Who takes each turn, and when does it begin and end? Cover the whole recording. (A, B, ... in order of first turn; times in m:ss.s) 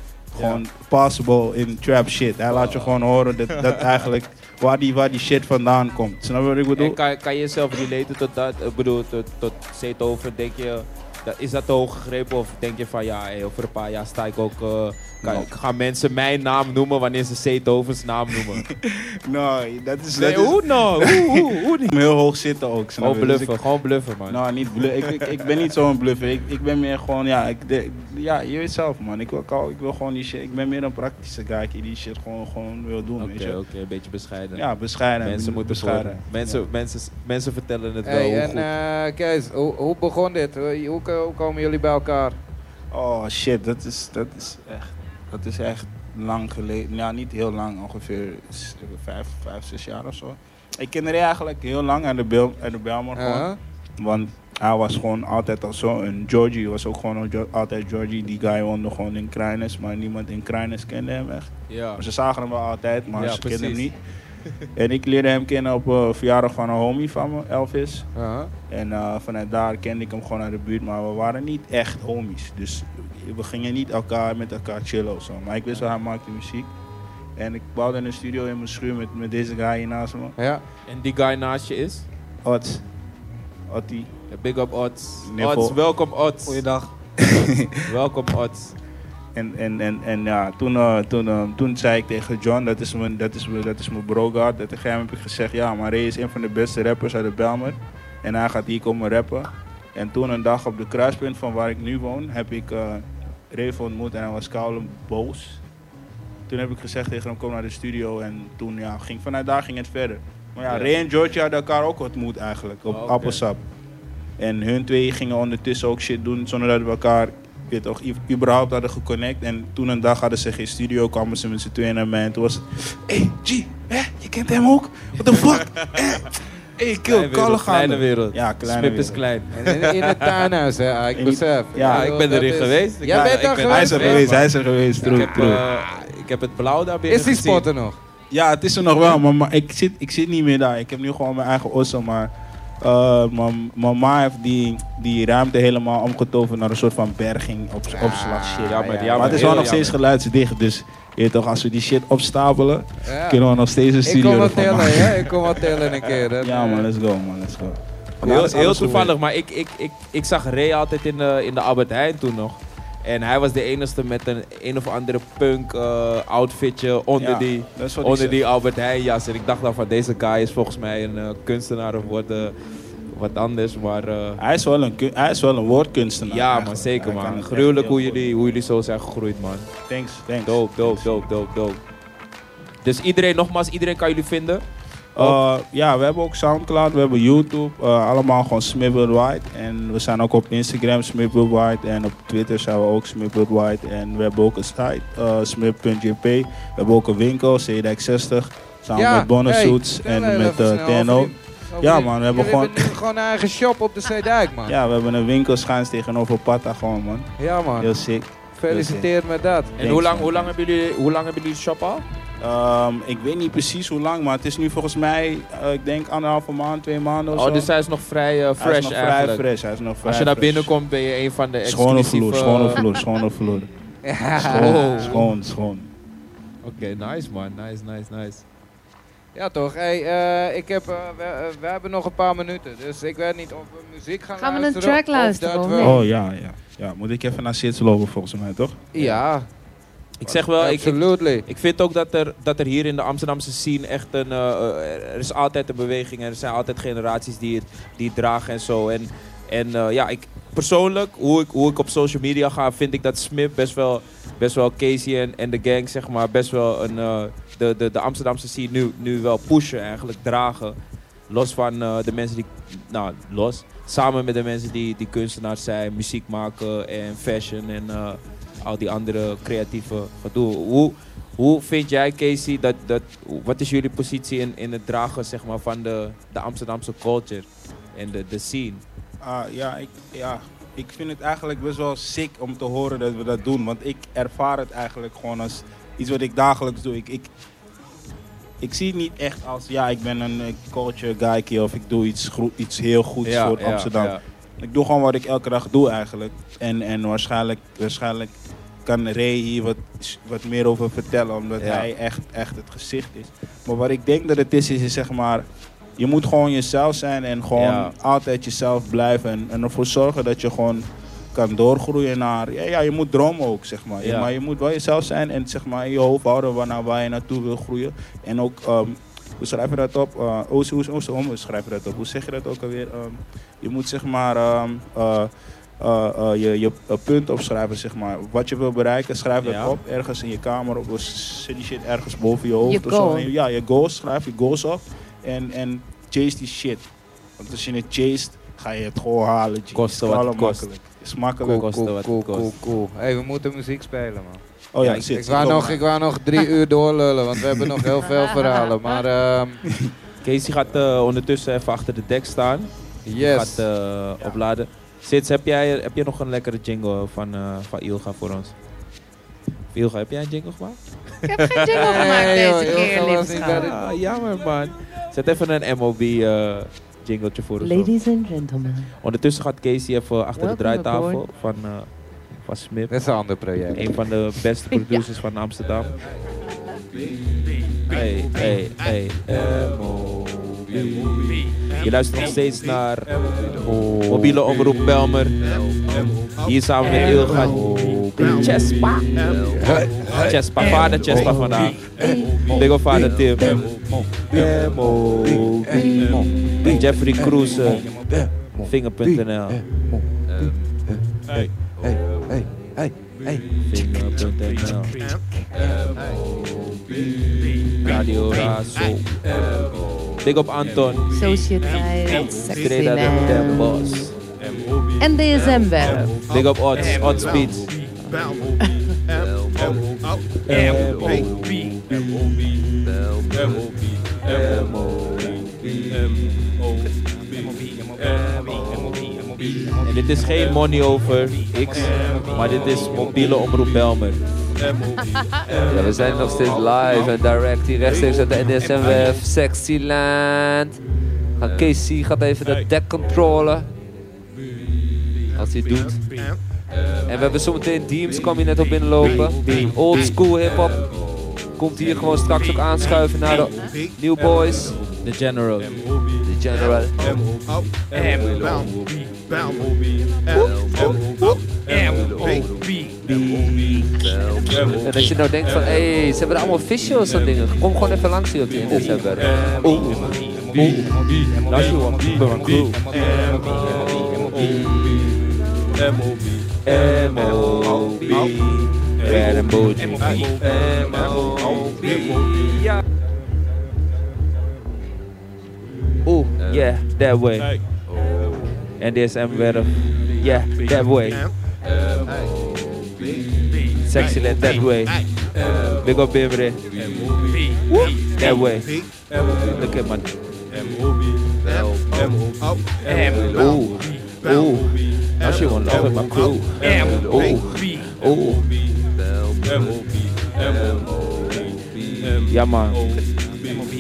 0:00.3-0:07.0 A
0:00.3-0:00.6 B
0:02.5-0:04.0 B
0:06.8-0:18.7 B
0:15.2-0:15.5 A
0:18.3-0:23.6 A
0:20.2-0:22.0 B
0:23.0-0:25.4 B
0:24.3-0:33.6 A
0:33.2-0:34.6 B
0:34.5-0:36.6 A
0:35.2-0:38.7 B
0:38.0-0:42.4 C
0:42.9-1:04.0 A
0:53.2-0:53.6 C
1:01.7-1:02.0 B
1:03.2-1:03.9 B
1:04.8-1:08.1 A
1:08.2-1:08.5 C
1:08.7-1:16.7 A
1:17.4-1:20.4 A
1:20.4-1:20.6 C
1:20.9-1:22.1 B
1:22.4-1:22.8 A
1:23.7-1:24.1 A
1:24.3-1:26.7 B
1:25.2-1:25.8 A
1:26.4-1:27.9 A
1:27.9-1:28.8 B
1:29.4-1:45.6 A
1:46.5-1:53.6 A
1:50.7-1:50.9 B
1:52.9-1:53.4 B
1:54.4-2:09.2 A
2:05.2-2:06.0 B
2:07.0-2:10.5 B
2:09.5-2:14.3 C
2:11.2-2:12.1 A
2:11.8-2:14.5 B
2:13.7-2:15.7 A
2:15.0-2:17.6 B
2:17.1-2:18.0 C
2:18.3-2:35.3 A
2:27.9-2:29.7 C
2:28.7-2:30.0 B
2:33.0-2:33.4 C
2:34.0-2:36.9 C
2:36.4-2:39.2 A
2:38.2-2:52.5 B
2:47.2-2:48.4 A
2:53.1-2:54.4 B
2:54.4-2:58.3 A
2:56.3-2:59.7 B
2:59.9-3:01.3 A
3:00.4-3:01.8 B
3:02.8-3:04.6 B
3:05.2-3:23.0 A
3:19.0-3:24.8 C
3:24.7-3:29.1 A
3:27.4-3:27.9 C
3:28.6-3:29.8 C
3:29.8-3:30.5 A
3:29.8-3:32.0 B
3:32.4-3:37.7 A
3:37.3-3:39.4 B
3:38.6-3:40.7 A
3:40.0-3:42.9 B
3:41.6-3:43.7 A
3:44.0-3:45.2 C
3:44.4-3:45.9 A
3:44.4-3:45.3 B
3:46.6-3:48.4 B
3:49.4-3:56.0 C
3:54.4-3:56.0 D
3:55.8-3:58.9 A
3:58.9-3:59.5 C
4:00.2-4:20.8 B
4:00.3-4:01.4 C
4:21.3-4:38.8 B
4:39.2-4:47.3 A
4:48.6-5:05.4 A
4:53.2-4:54.2 B
5:01.6-5:01.9 B
5:06.0-5:41.7 A
5:07.6-5:07.9 B
5:14.0-5:14.3 B
5:29.4-5:29.8 B
5:32.6-5:33.3 D
5:39.8-5:40.7 B
5:41.4-5:44.4 C
5:41.6-5:42.6 B
5:44.7-5:45.8 A
5:44.8-5:45.6 B
5:45.2-5:49.6 C
5:48.0-5:49.0 D
5:50.2-5:58.5 B
5:53.1-5:53.6 C
5:59.7-6:02.4 B
6:01.3-6:03.7 D
6:01.7-6:03.8 C
6:03.5-6:08.0 B
6:07.6-6:08.9 D
6:09.0-6:11.9 B
6:10.4-6:11.2 D
6:12.4-6:13.0 B
6:12.9-6:13.8 C
6:13.7-6:16.0 B
6:14.7-6:15.1 D
6:17.9-6:23.2 B
6:24.1-6:25.4 B
6:26.4-6:33.6 B
6:32.0-6:32.4 D
6:34.3-6:36.0 B
6:35.8-6:36.1 D
6:36.6-6:37.9 B
6:38.6-6:39.6 B
6:43.6-6:45.0 B
6:47.8-6:49.2 B
6:50.2-6:51.5 B
6:51.1-6:54.1 D
6:52.3-6:54.2 B
6:55.0-6:56.2 D
6:56.3-6:57.7 B
6:58.0-6:59.0 D
7:00.4-7:02.0 B
7:04.2-7:06.2 B
7:08.5-7:08.9 B
7:09.8-7:14.2 B
7:15.7-7:20.8 E
7:21.4-7:23.7 E
7:25.4-7:26.0 E
7:27.1-7:30.8 E
7:29.0-7:30.1 B
7:31.6-7:34.8 E
7:31.8-7:32.2 B
7:33.5-7:33.7 D
7:35.0-7:35.8 B
7:36.2-7:37.0 E
7:38.4-7:38.7 B
7:40.3-7:40.8 D
7:43.1-7:43.8 B
7:44.8-7:49.3 E
7:48.7-7:54.9 B
7:56.6-8:02.8 B
8:06.1-8:07.6 B
8:08.8-8:11.3 B
8:13.8-8:15.0 B
8:15.8-8:16.9 B
8:17.7-8:18.8 B
8:19.4-8:20.1 B
8:22.9-8:28.5 B
8:32.3-8:32.8 B